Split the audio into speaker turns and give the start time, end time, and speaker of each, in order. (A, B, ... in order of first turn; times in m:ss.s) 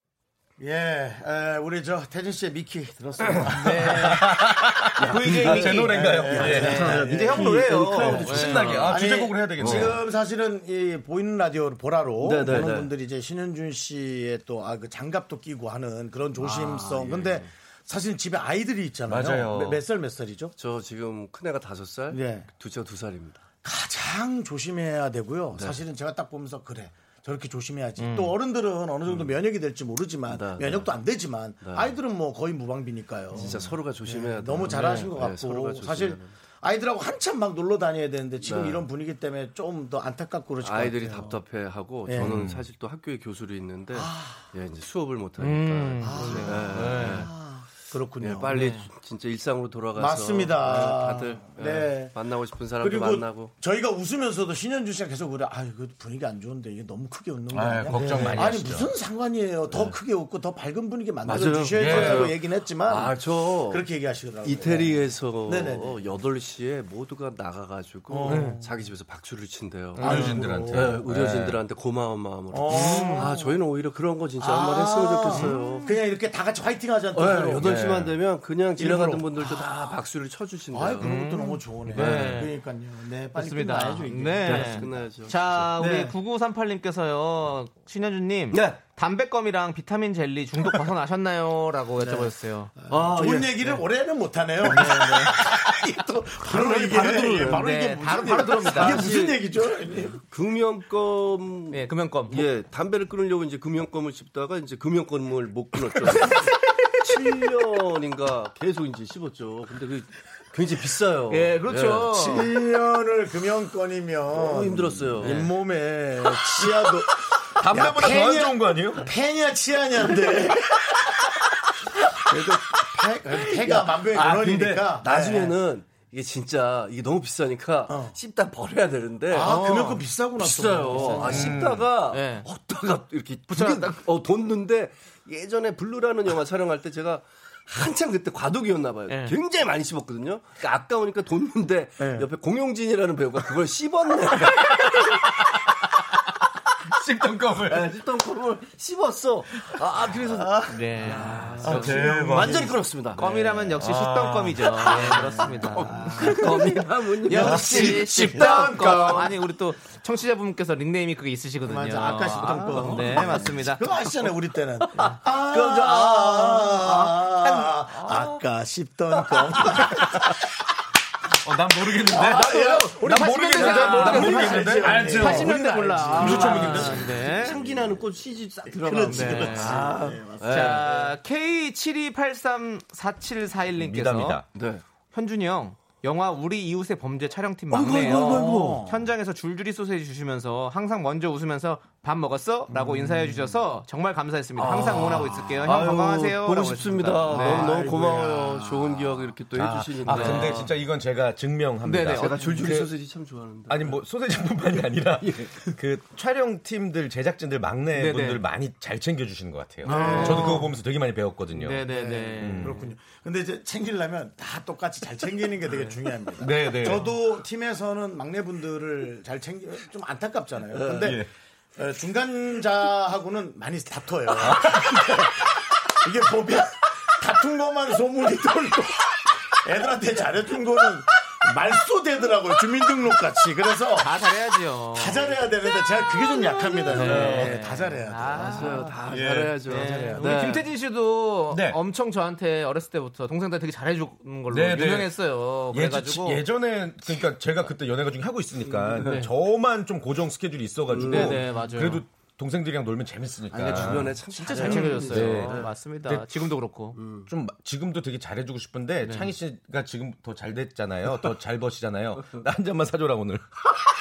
0:00.6-0:04.2 A
0:03.5-0:04.3 B
0:03.8-0:10.0 C
0:05.0-0:09.0 D
0:05.0-0:08.9 B
0:05.8-0:08.3 A
0:08.9-0:20.5 A
0:09.6-0:10.0 D
0:12.2-0:12.9 D
0:16.4-0:17.5 D
0:19.1-0:19.8 C
0:20.6-0:23.4 D
0:22.1-0:22.5 A
0:23.6-0:41.4 A
0:28.0-0:28.4 B
0:30.3-0:30.9 D
0:31.6-0:32.0 D
0:33.3-0:36.3 D
0:34.8-0:35.1 B
0:38.4-0:38.8 D
0:40.6-0:47.3 D
0:42.1-0:42.5 A
0:42.2-0:42.6 C
0:43.9-0:44.5 A
0:45.4-0:47.3 B
0:46.0-0:48.8 A
0:48.2-0:53.5 D
0:48.5-0:48.9 B
0:50.0-0:52.2 A
0:52.8-1:06.0 A
0:57.5-0:58.9 C
0:57.9-0:58.6 B
0:58.0-0:58.4 D
1:01.2-1:03.9 D
1:01.4-1:02.4 C
1:04.4-1:15.9 D
1:08.1-1:08.8 A
1:08.3-1:08.6 B
1:10.0-1:10.4 B
1:10.0-1:11.6 C
1:10.0-1:11.0 A
1:12.5-1:13.6 A
1:12.7-1:13.3 B
1:14.4-1:17.9 A
1:15.4-1:15.8 B
1:17.1-1:21.2 D
1:17.6-1:18.2 C
1:18.8-1:19.9 A
1:20.7-1:25.0 A
1:21.0-1:22.5 B
1:22.0-1:22.5 D
1:23.3-1:32.7 B
1:24.4-1:26.1 D
1:25.8-1:26.1 A
1:28.5-1:28.8 D
1:32.9-1:40.2 A
1:32.9-1:33.8 D
1:34.6-1:35.7 B
1:34.8-1:35.2 D
1:36.4-1:39.1 B
1:36.5-1:37.7 D
1:38.6-1:52.5 D
1:41.7-1:42.5 B
1:51.3-1:52.5 B
1:52.2-2:01.0 A
1:54.3-1:55.6 D
1:55.2-1:55.5 B
1:57.6-1:59.1 C
2:02.2-2:05.6 A
2:03.4-2:25.2 D
2:07.9-2:08.2 A
2:09.3-2:11.6 A
2:11.1-2:11.9 C
2:12.1-2:12.5 B
2:13.5-2:14.0 B
2:19.1-2:19.4 B
2:22.0-2:22.3 A
2:26.9-2:27.9 C
2:27.6-2:34.0 D
2:29.5-2:30.6 C
2:30.7-2:31.8 B
2:31.2-2:32.7 A
2:31.6-2:32.8 C
2:33.2-2:44.2 B
2:33.8-2:35.2 C
2:34.6-2:39.3 D
2:35.0-2:36.8 A
2:37.3-2:39.4 A
2:37.4-2:37.8 C
2:41.6-2:50.3 A
2:42.4-2:43.6 D
2:45.0-2:47.4 D
2:51.4-2:57.3 C
2:52.1-2:57.8 A
2:52.1-2:57.6 B
2:53.8-2:55.3 D
2:56.2-3:01.2 D
2:58.8-3:00.9 A
2:59.1-2:59.9 B
3:00.4-3:04.4 B
3:03.8-3:04.5 C
3:04.5-3:04.8 D
3:05.1-3:17.8 B
3:07.7-3:08.9 D
3:08.0-3:09.1 A
3:12.7-3:13.5 A
3:14.6-3:20.8 D
3:15.1-3:15.6 A
3:17.3-3:19.3 A
3:19.6-3:22.9 C
3:20.1-3:20.7 B
3:21.8-3:22.4 B
3:22.1-3:24.0 D
3:23.7-3:32.9 C
3:24.7-3:25.7 D
3:27.9-3:28.4 B
3:29.8-3:30.7 A
3:29.8-3:30.7 B
3:31.6-3:32.9 B
3:31.9-3:41.2 A
3:36.4-3:37.1 C
3:40.8-3:41.2 D
3:40.9-3:41.3 C
3:41.8-3:54.1 A
3:44.5-3:45.2 C
3:54.0-3:55.4 B
3:54.9-3:59.0 A
3:56.9-3:58.8 B
3:56.9-3:57.6 D
3:58.3-4:00.6 D
3:59.0-4:00.1 C
3:59.7-4:06.4 B
3:59.8-4:00.5 A
4:01.5-4:01.8 C
4:04.5-4:05.2 C
4:05.7-4:16.3 C
4:08.7-4:09.3 D
4:09.0-4:09.3 B
4:10.9-4:11.6 D
4:11.0-4:12.0 B
4:13.5-4:15.7 D
4:13.7-4:17.0 B
4:14.6-4:15.0 A
4:17.0-4:17.3 D
4:17.3-4:23.4 C
4:19.0-4:19.3 B